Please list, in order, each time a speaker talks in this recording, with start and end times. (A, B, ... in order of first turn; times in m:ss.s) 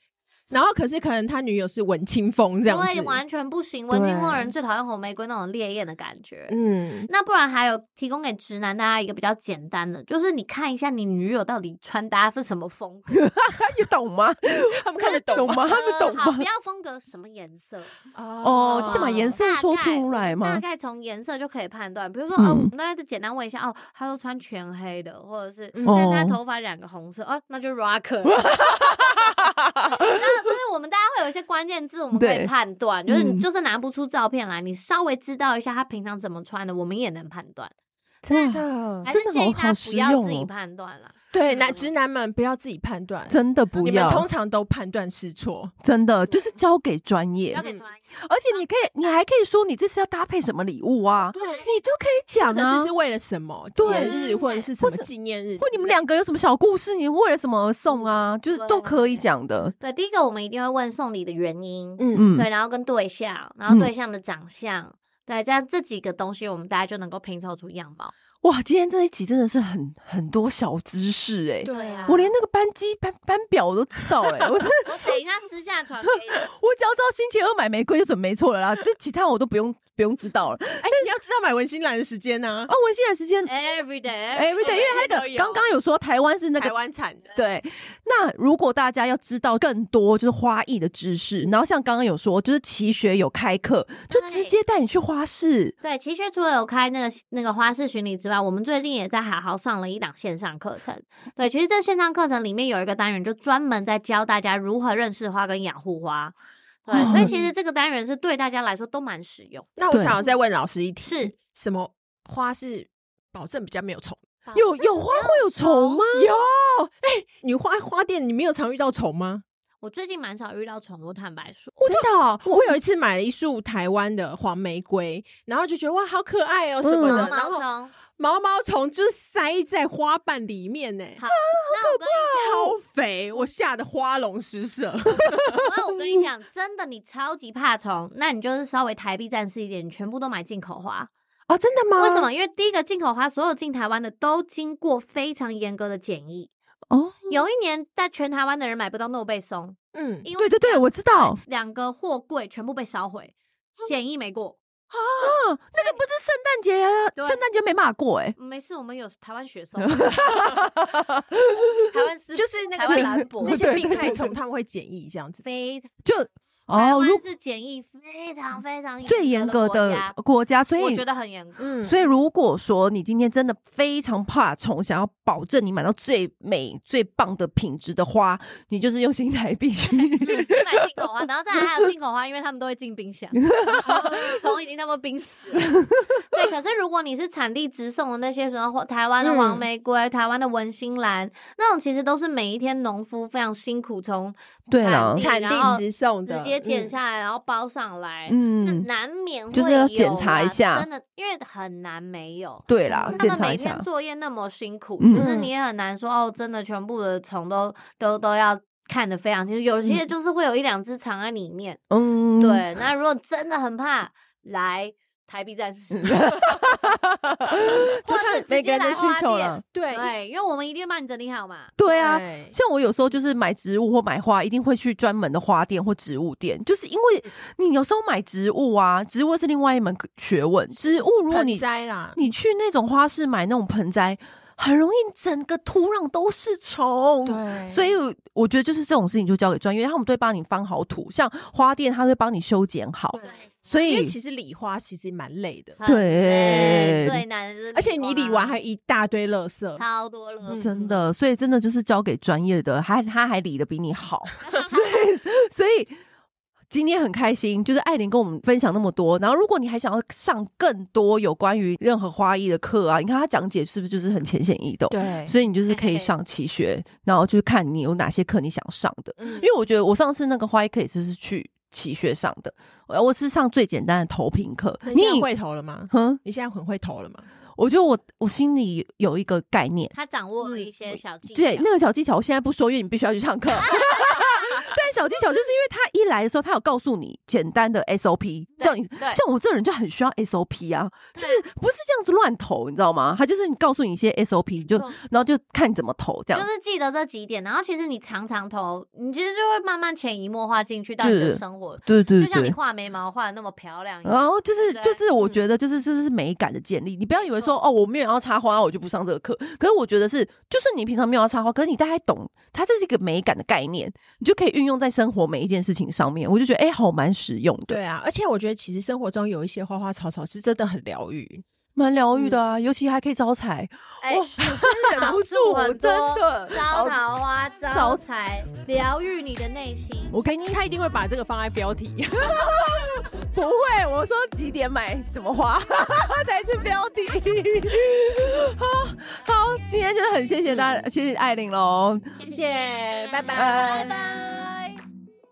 0:00.5-0:03.2 A
0:02.7-0:06.6 B
0:03.9-0:04.5 A
0:06.5-0:07.1 A
0:07.1-0:13.3 B
0:13.1-0:16.5 C
0:14.6-0:15.7 A
0:15.2-0:17.9 B
0:18.1-0:19.4 A
0:18.4-0:20.6 C
0:18.6-0:29.5 B
0:22.4-0:22.7 C
0:25.8-0:26.1 A
0:25.8-0:26.4 C
0:28.3-0:30.4 C
0:30.0-0:37.7 B
0:32.1-0:32.5 C
0:33.1-0:33.4 C
0:38.2-0:40.5 C
0:38.3-0:41.9 B
0:38.5-0:39.1 A
0:41.3-0:45.7 A
0:43.3-0:44.3 C
0:45.8-0:47.6 C
0:47.5-0:49.1 B
0:47.6-0:47.8 A
0:48.2-0:52.9 C
0:51.3-0:51.7 A
0:52.4-0:56.0 A
0:53.8-0:54.2 C
0:53.8-0:54.7 B
0:54.8-0:55.1 C
0:55.6-0:59.8 C
0:57.9-0:59.2 B
0:59.8-1:08.1 B
1:02.0-1:02.3 A
1:02.1-1:02.5 C
1:08.4-1:15.2 C
1:11.6-1:12.2 A
1:11.6-1:12.3 B
1:14.2-1:14.5 A
1:14.8-1:16.5 B
1:16.3-1:21.1 C
1:20.8-1:22.7 A
1:22.7-1:23.5 C
1:23.4-1:25.1 B
1:24.3-1:26.8 C
1:24.6-1:25.7 A
1:26.6-1:27.3 A
1:27.4-1:35.8 C
1:34.1-1:34.6 B
1:35.8-1:49.8 B
1:46.9-1:47.3 C
1:47.1-1:47.5 A
1:49.8-1:54.2 A
1:49.9-1:50.2 C
1:51.0-1:51.4 B
1:54.5-1:56.1 B
1:54.5-1:56.3 C
1:56.1-1:59.4 A
1:59.8-2:01.8 B
2:01.8-2:02.7 C
2:01.8-2:07.6 A
2:06.8-2:07.3 C
2:07.0-2:07.9 B
2:08.2-2:11.2 A
2:11.2-2:12.8 B
2:11.3-2:12.7 C
2:12.3-2:15.7 A
2:15.2-2:21.1 B
2:21.5-2:22.3 A
2:22.0-2:26.5 B
2:26.9-2:27.3 C
2:27.3-2:34.6 B
2:29.9-2:30.3 A
2:30.4-2:31.4 C
2:34.9-2:35.4 A
2:35.2-2:38.4 C
2:37.2-2:37.4 B
2:38.4-2:40.5 B
2:39.8-2:41.9 C
2:41.9-2:44.2 B
2:42.3-2:45.4 A
2:42.9-2:44.3 C
2:45.4-2:45.9 B
2:46.0-2:47.2 C
2:46.7-2:50.2 B
2:49.1-2:51.0 C
2:50.8-2:51.7 B
2:51.6-2:52.0 A
2:51.8-3:00.9 C
2:59.9-3:05.8 B
3:03.4-3:04.4 C
3:06.3-3:31.8 B
3:09.2-3:09.6 A
3:14.7-3:15.2 C
3:15.2-3:16.9 A
3:18.3-3:18.9 C
3:19.5-3:20.9 C
3:22.7-3:23.8 C
3:22.9-3:23.2 A
3:25.0-3:25.4 C
3:25.1-3:25.5 A
3:31.9-3:32.7 C
3:32.4-3:36.7 B
3:36.0-3:39.6 C
3:38.0-3:41.8 B
3:39.7-3:40.1 A
3:41.8-4:04.2 C
3:41.9-3:42.6 A
3:50.8-3:52.2 A
3:57.3-3:57.9 A
4:03.1-4:05.8 A
4:05.8-4:08.6 B
4:05.9-4:07.2 C
4:06.5-4:06.9 A
4:07.7-4:09.8 A
4:09.8-4:10.7 B
4:10.4-4:10.8 A
4:10.6-4:16.0 C
4:14.4-4:15.0 B
4:16.7-4:35.3 C
4:24.9-4:25.3 A
4:25.7-4:26.1 B
4:29.2-4:29.5 A
4:34.8-4:37.3 A
4:35.9-4:36.2 C
4:37.6-4:39.9 C
4:39.9-4:41.7 B
4:40.4-4:40.7 A
4:40.9-4:56.5 C
4:43.6-4:44.6 B
4:48.6-4:49.2 B
4:51.2-4:51.4 B
4:54.7-4:55.0 B
4:56.3-5:05.0 B
5:01.0-5:02.6 C
5:04.0-5:17.8 C
5:07.2-5:07.6 B
5:17.7-5:21.4 A
5:21.8-5:27.0 C
5:24.0-5:30.2 B
5:27.7-5:28.0 C
5:30.1-5:30.4 C
5:30.2-5:33.0 A
5:32.2-5:42.1 C
5:40.5-5:40.8 A
5:42.2-5:44.1 A
5:43.0-5:44.8 B
5:43.3-5:44.0 C